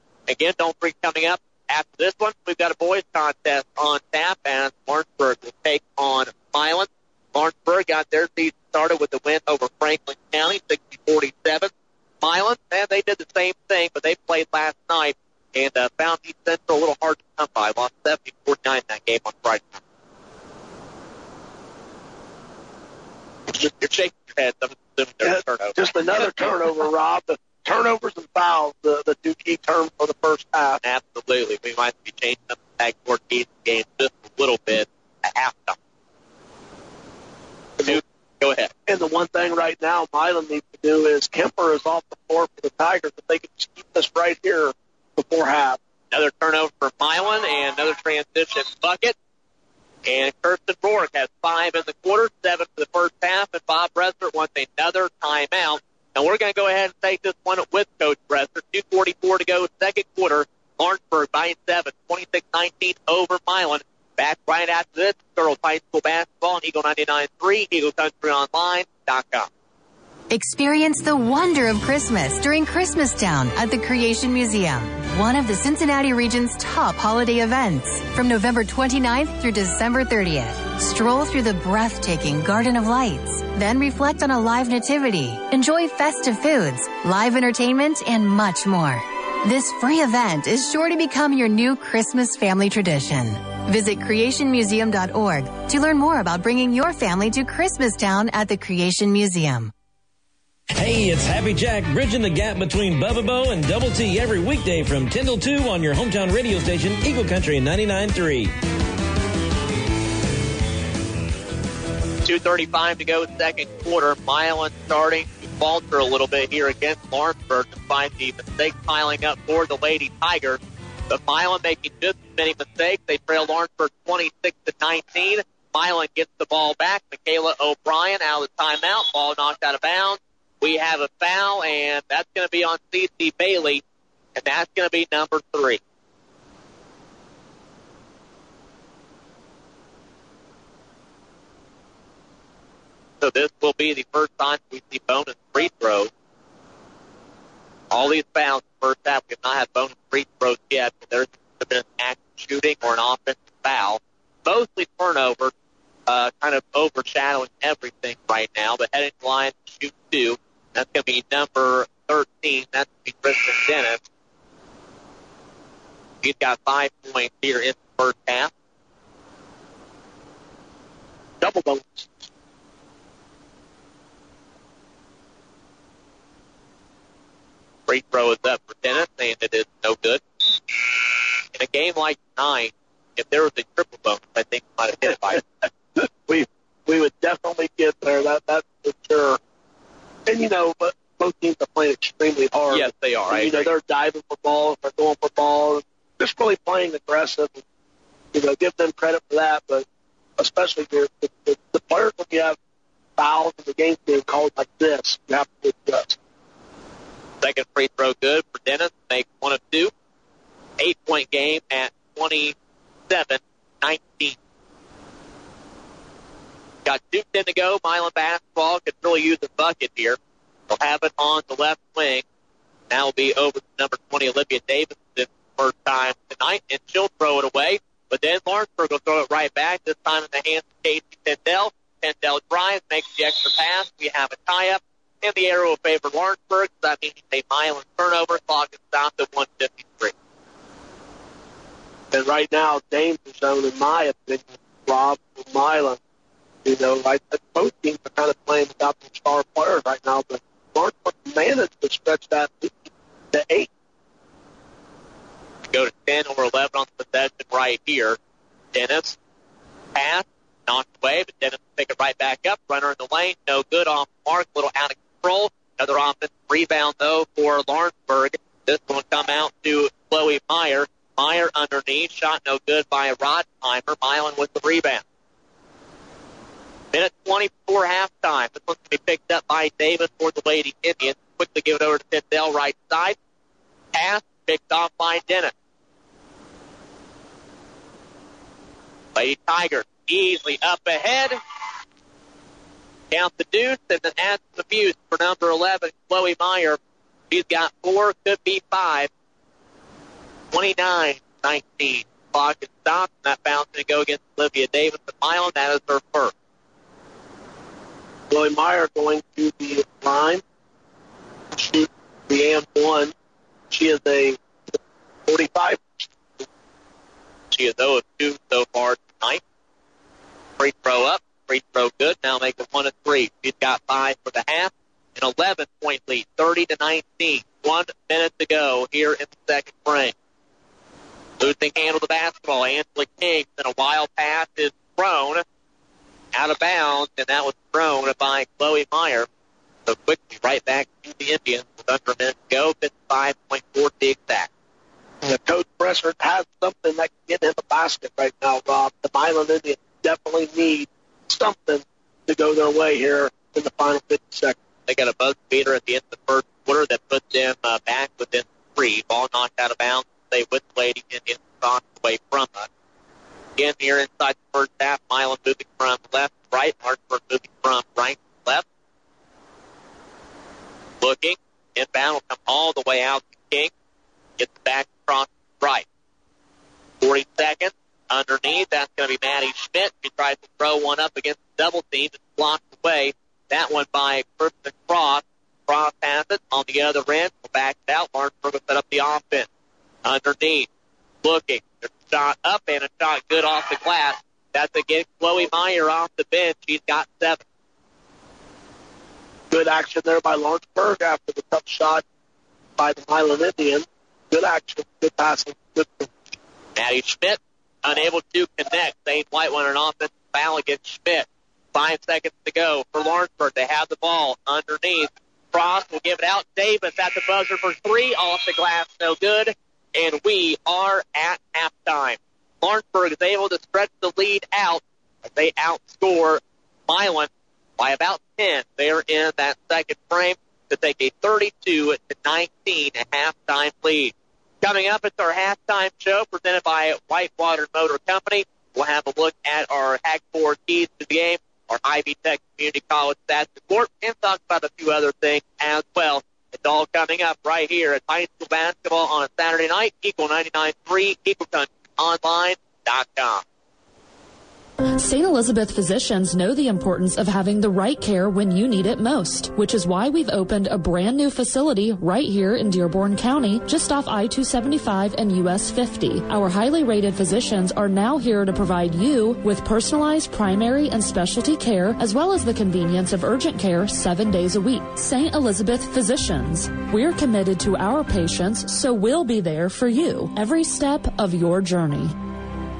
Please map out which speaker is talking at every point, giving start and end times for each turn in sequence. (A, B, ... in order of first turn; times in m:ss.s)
0:00.3-0:11.7 A
0:12.2-0:19.8 A
0:23.5-0:26.7 A
0:25.2-0:30.8 B
0:30.8-0:35.8 A
0:37.8-0:38.7 A
0:38.9-0:45.8 B
0:46.1-0:49.2 A
0:50.0-1:09.5 A
1:10.3-1:39.7 C
1:40.8-1:48.5 D
1:52.2-2:00.6 A
2:01.1-2:13.8 A
2:14.4-2:15.8 A
2:23.2-2:26.1 A
2:27.9-2:35.5 A
2:36.1-2:44.0 A
2:46.2-2:48.5 A
2:51.4-2:52.1 B
2:57.9-3:00.2 A
3:01.5-3:05.4 A
3:05.0-3:09.4 B
3:10.3-3:17.6 B
3:12.7-3:13.7 A
3:18.3-3:19.8 B
3:20.4-3:22.6 B
3:23.2-3:26.2 B
3:27.4-3:29.9 A
3:30.8-3:32.6 A
3:33.1-3:34.4 A
3:36.9-3:40.2 A
3:40.7-3:42.2 A
3:42.9-4:00.1 A
4:02.1-4:06.0 B
4:06.6-4:13.7 B
4:15.7-4:18.2 A
4:18.7-4:19.2 A
4:20.0-4:35.0 A
4:36.9-4:43.2 A
4:43.9-4:45.5 A
4:49.2-4:51.4 A
4:53.1-4:56.8 A
4:57.3-4:59.1 A
5:00.5-5:06.3 A
5:08.3-5:10.4 B
5:11.5-5:13.1 B
5:13.7-5:16.5 B
5:17.5-5:19.4 A
5:20.6-5:30.1 A
5:31.4-5:35.4 A
5:36.3-5:39.3 A
5:39.9-5:44.5 A
5:45.2-5:54.6 B
5:54.9-6:02.7 A
6:03.6-6:08.6 A
6:11.0-6:13.7 A
6:14.4-6:15.9 A
6:17.0-6:29.5 A
6:30.0-6:30.7 A
6:31.2-6:37.4 A
6:39.5-6:42.0 B
6:42.8-6:46.3 B
6:46.8-7:33.4 A
7:35.0-8:02.2 E